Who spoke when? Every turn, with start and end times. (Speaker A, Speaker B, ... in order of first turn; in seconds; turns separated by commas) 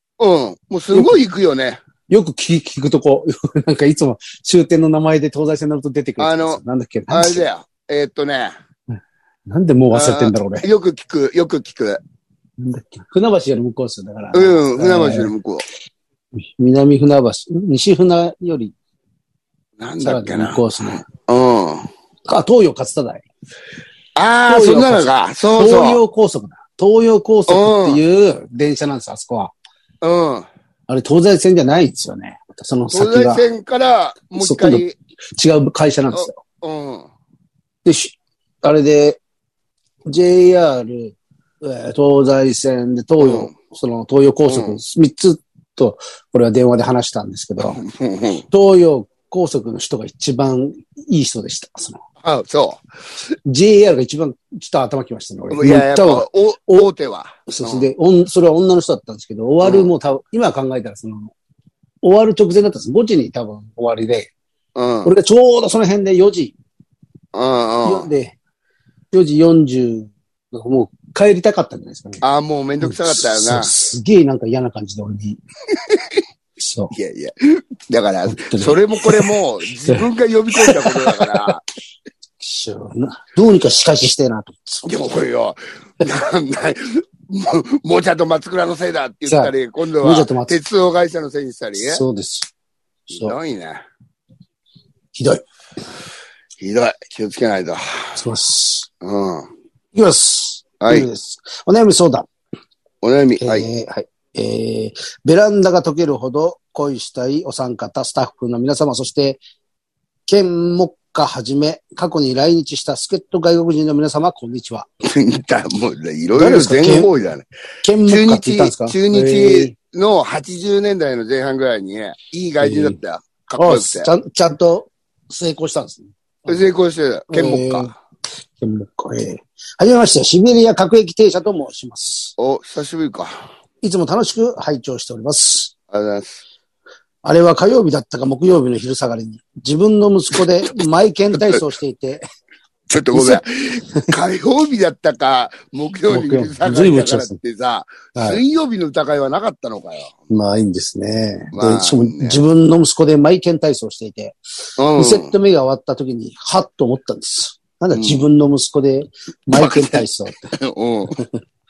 Speaker A: 0.2-1.8, Speaker B: 2.1-7.5, Speaker A: 6.2-8.5, Speaker B: 9.5-10.7, Speaker A: 9.9-12.0, Speaker B: 12.6-15.3, Speaker A: 14.3-15.6, Speaker B: 16.6-18.7, Speaker A: 19.8-21.9, Speaker B: 20.0-21.1, Speaker B: 22.3-23.2, Speaker A: 24.2-26.0, Speaker B: 24.5-29.5, Speaker A: 27.5-28.0, Speaker A: 30.0-30.5, Speaker B: 30.9-33.4, Speaker A: 32.9-35.0, Speaker B: 34.4-34.8, Speaker B: 35.4-36.4, Speaker A: 36.1-37.1, Speaker B: 37.9-39.2, Speaker B: 40.1-47.8, Speaker A: 43.2-43.5, Speaker A: 44.5-44.8, Speaker A: 47.6-48.5, Speaker B: 48.5-52.0, Speaker A: 52.2-52.8, Speaker B: 53.5-56.9, Speaker A: 55.5-57.9, Speaker B: 57.5-61.3, Speaker A: 59.6-59.9, Speaker B: 62.0-64.3, Speaker A: 64.8-65.1, Speaker B: 65.0-66.6, Speaker A: 67.3-68.1, Speaker B: 67.8-68.3, Speaker B: 69.1-72.2, Speaker A: 72.2-73.7, Speaker B: 72.8-75.4, Speaker A: 75.7-76.2, Speaker B: 76.6-77.0, Speaker A: 76.9-81.6, Speaker B: 78.3-81.5, Speaker B: 82.4-84.9, Speaker A: 84.8-92.0, Speaker B: 89.3-90.6, Speaker B: 91.8-92.5, Speaker B: 93.1-93.4, Speaker A: 93.2-93.8, Speaker B: 95.1-95.5, Speaker A: 96.6-98.2, Speaker B: 98.2-98.9, Speaker A: 99.0-99.5, Speaker B: 99.9-102.3, Speaker A: 100.8-101.1, Speaker A: 103.0-103.7, Speaker B: 103.4-109.4, Speaker B: 110.3-114.9, Speaker A: 115.0-117.5, Speaker B: 116.3-117.1, Speaker B: 117.8-119.8, Speaker A: 118.0-124.1, Speaker B: 122.6-123.0, Speaker B: 123.6-126.7, Speaker A: 126.5-127.9, Speaker B: 127.3-127.9, Speaker B: 128.6-132.3, Speaker A: 132.4-133.4, Speaker B: 133.8-135.7, Speaker A: 135.9-136.4, Speaker B: 137.2-142.2, Speaker A: 142.9-150.2, Speaker B: 143.1-143.4, Speaker B: 146.1-147.4, Speaker B: 148.2-148.4, Speaker B: 150.3-154.4, Speaker A: 151.5-152.4, Speaker A: 154.8-155.3, Speaker B: 154.9-160.6, Speaker A: 157.9-158.2, Speaker A: 159.5-161.2